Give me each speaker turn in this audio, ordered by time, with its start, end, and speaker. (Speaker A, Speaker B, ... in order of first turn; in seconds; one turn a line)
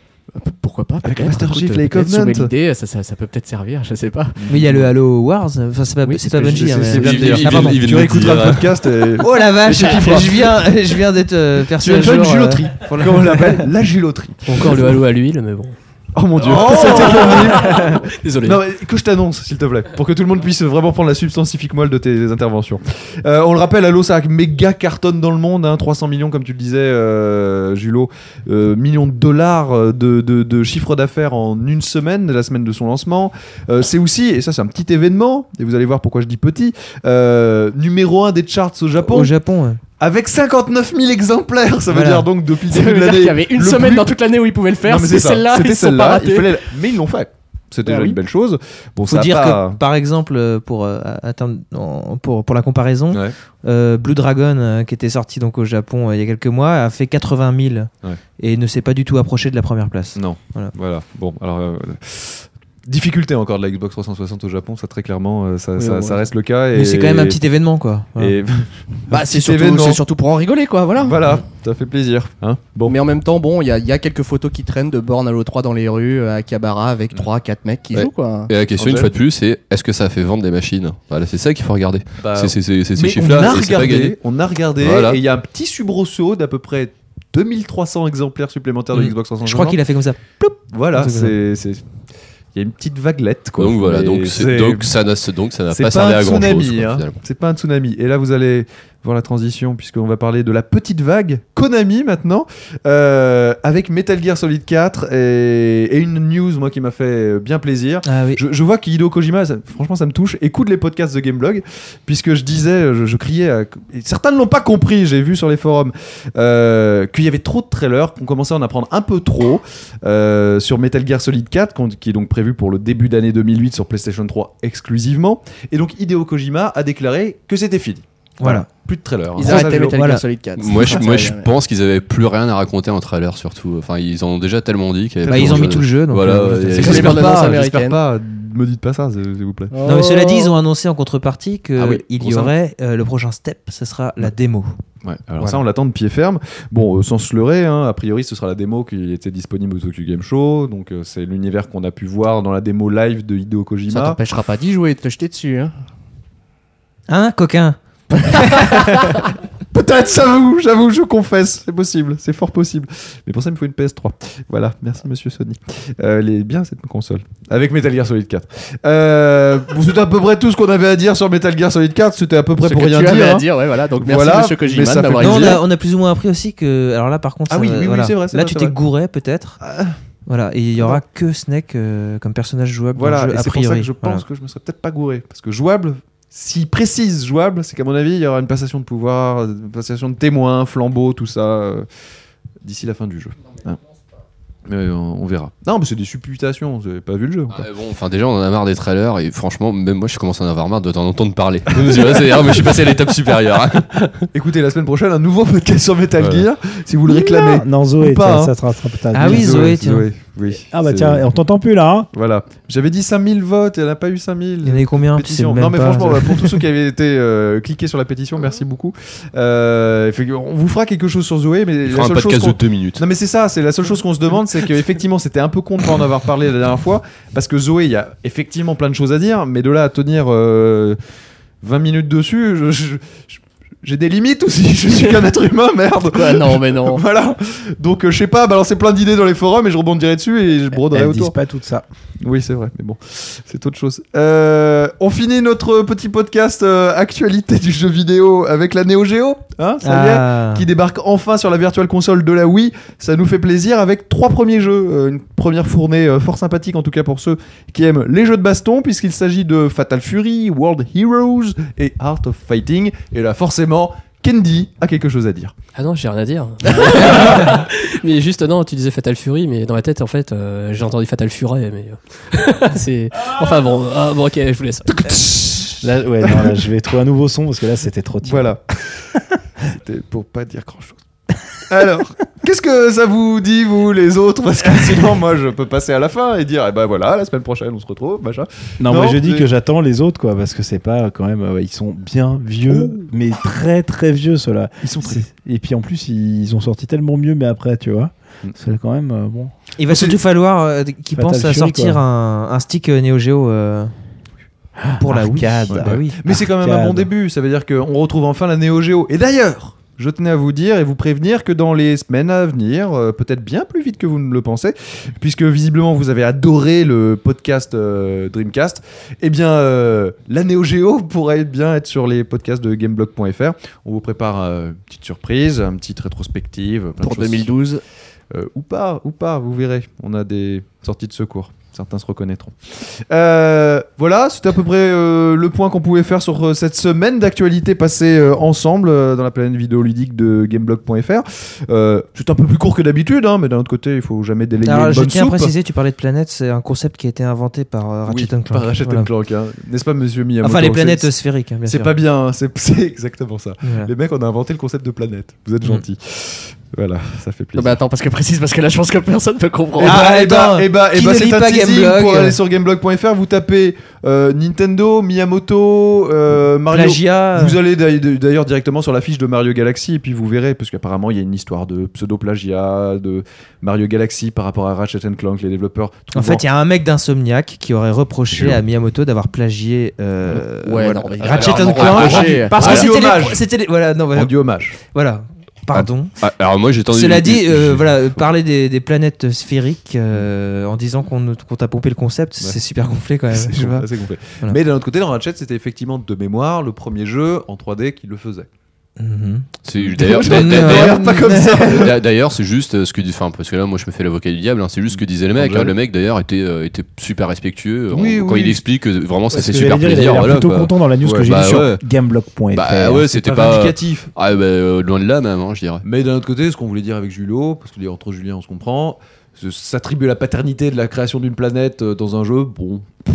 Speaker A: 0.3-4.5
Speaker B: 1.0-2.5
Speaker B: 4.4-4.8
Speaker C: 4.5-7.8
Speaker A: 6.0-7.3
Speaker B: 6.4-10.5
Speaker D: 6.9-8.8
Speaker C: 9.2-13.7
Speaker B: 11.7-14.9
Speaker E: 14.4-15.8
Speaker B: 16.1-39.3
Speaker E: 16.5-18.6
Speaker C: 39.0-39.8
Speaker B: 40.0-44.1
Speaker C: 41.9-42.3
Speaker A: 42.6-46.6
Speaker B: 44.8-49.8
Speaker A: 47.9-48.2
Speaker C: 49.1-60.7
Speaker B: 60.1-67.4
Speaker A: 65.8-66.1
Speaker C: 66.7-68.3
Speaker B: 68.2-70.0
Speaker A: 69.1-71.3
Speaker B: 71.0-73.0
Speaker A: 72.8-78.5
Speaker D: 77.9-84.2
Speaker B: 78.8-79.1
Speaker B: 82.2-89.8
Speaker D: 84.8-85.2
Speaker C: 88.9-91.3
Speaker B: 90.7-91.8
Speaker B: 92.5-94.9
Speaker D: 93.6-97.2
Speaker B: 95.7-130.0
Speaker C: 108.0-108.4
Speaker C: 128.4-128.7
Speaker A: 129.3-131.5
Speaker C: 129.4-130.2
Speaker D: 130.6-137.3
Speaker B: 135.2-135.8
Speaker C: 135.3-137.1
Speaker A: 136.8-138.0
Speaker B: 136.8-139.8
Speaker A: 139.7-140.5
Speaker C: 139.8-144.7
Speaker B: 141.8-142.5
Speaker B: 145.0-154.2
Speaker A: 153.9-155.7
Speaker C: 157.1-159.2
Speaker B: 159.7-175.6
Speaker A: 172.6-175.6
Speaker C: 175.2-179.6
Speaker B: 177.5-178.8
Speaker B: 179.6-179.9
Speaker C: 180.3-184.2
Speaker B: 182.9-191.8
Speaker B: 192.6-193.8
Speaker B: 194.7-197.6
Speaker D: 197.5-204.3
Speaker B: 201.8-202.8
Speaker B: 204.3-208.5
Speaker D: 206.2-206.4
Speaker F: 207.1-209.8
Speaker C: 209.1-210.1
Speaker B: 209.2-211.3
Speaker F: 210.7-212.1
Speaker B: 212.1-231.0
Speaker C: 214.6-216.6
Speaker D: 221.8-223.0
Speaker B: 231.6-241.3
Speaker A: 234.9-235.3
Speaker A: 236.0-237.0
Speaker F: 240.9-241.8
Speaker B: 242.2-265.5
Speaker C: 249.8-250.7
Speaker E: 265.7-275.1
Speaker B: 275.0-276.5
Speaker F: 275.8-278.6
Speaker B: 278.2-278.8
Speaker B: 279.6-281.0
Speaker B: 281.7-289.5
Speaker F: 288.8-299.5
Speaker B: 292.7-293.0
Speaker B: 294.8-295.3
Speaker C: 299.8-303.9
Speaker B: 299.9-300.2
Speaker F: 301.1-302.0
Speaker F: 304.8-307.1
Speaker C: 305.0-306.2
Speaker B: 305.7-327.5
Speaker A: 327.0-327.8
Speaker B: 328.3-345.5
Speaker C: 344.6-349.1
Speaker B: 348.1-351.1
Speaker C: 350.4-351.9
Speaker B: 351.6-357.8
Speaker C: 353.6-353.9
Speaker A: 357.6-360.0
Speaker C: 359.8-362.4
Speaker B: 359.8-376.4
Speaker C: 366.7-367.6
Speaker C: 376.1-386.1
Speaker A: 380.6-382.8
Speaker B: 381.2-383.4
Speaker D: 382.0-382.8
Speaker B: 384.1-384.8
Speaker D: 385.7-388.0
Speaker C: 386.9-393.9
Speaker B: 392.4-398.5
Speaker C: 399.0-399.5
Speaker D: 399.6-401.1
Speaker B: 399.8-402.0
Speaker C: 400.2-401.9
Speaker D: 401.6-411.8
Speaker B: 405.3-405.7
Speaker B: 407.9-408.6
Speaker F: 409.3-413.1
Speaker D: 412.5-415.8
Speaker B: 413.1-414.1
Speaker B: 415.8-422.9